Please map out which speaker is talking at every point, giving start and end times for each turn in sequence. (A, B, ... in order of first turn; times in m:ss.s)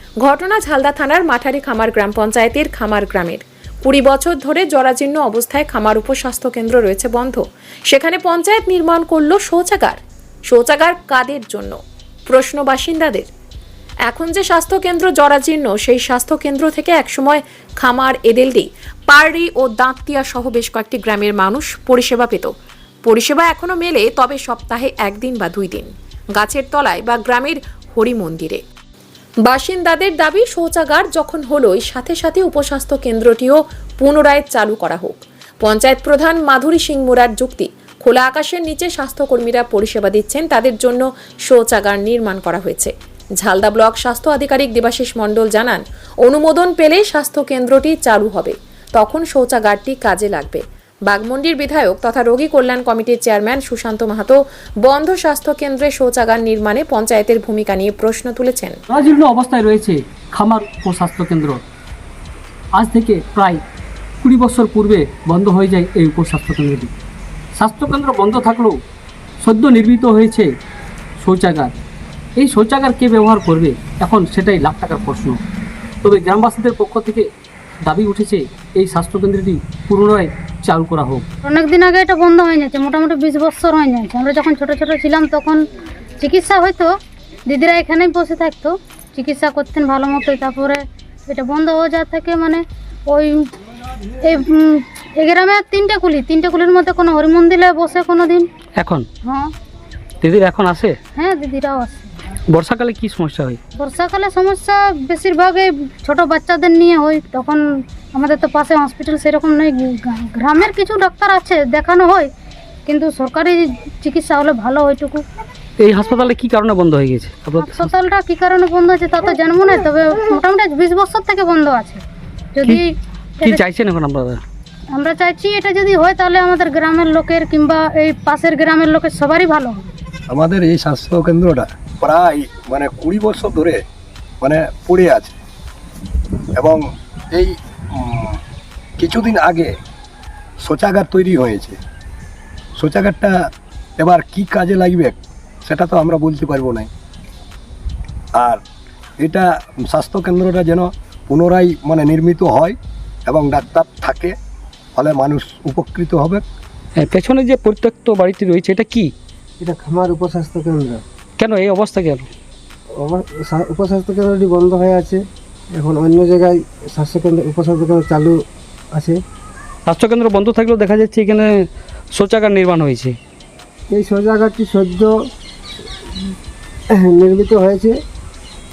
0:00.2-0:13.3 A
0:14.1-0:22.5 A
0:23.0-0:28.6 A
0:29.4-0:58.8 A
0:58.9-1:01.6 B
1:02.7-1:03.6 B
1:04.2-1:06.9 B
1:07.5-1:08.8 B
1:09.4-1:10.5 B
1:11.2-1:11.8 B
1:12.4-1:15.4 B
1:16.0-1:17.3 B
1:17.8-1:21.2 B
1:21.4-1:25.6 C
1:26.2-1:26.9 C
1:27.5-1:33.4 C
1:34.2-1:38.5 C
1:38.8-1:39.1 B
1:39.2-1:39.5 C
1:40.2-1:41.0 B
1:41.1-1:42.1 C
1:42.5-1:43.6 B
1:43.8-1:47.6 C
1:48.1-1:52.3 C
1:52.9-1:55.2 C
1:55.8-1:57.9 B
1:57.6-2:02.0 C
2:02.6-2:02.8 C
2:03.4-2:04.4 B
2:04.9-2:09.9 C
2:10.3-2:13.8 D
2:14.4-2:15.3 D
2:16.6-2:18.4 D
2:19.0-2:19.7 D
2:20.6-2:21.8 D
2:22.8-2:23.4 D
2:24.0-2:26.9 D
2:28.3-2:28.6 D
2:29.2-2:34.4 D
2:34.9-2:36.4 D
2:37.0-2:39.1 B
2:39.6-2:41.0 E
2:41.4-2:42.3 B
2:42.9-2:49.2 E
2:49.9-2:53.2 B
2:53.9-2:55.2 E
2:56.9-2:58.0 E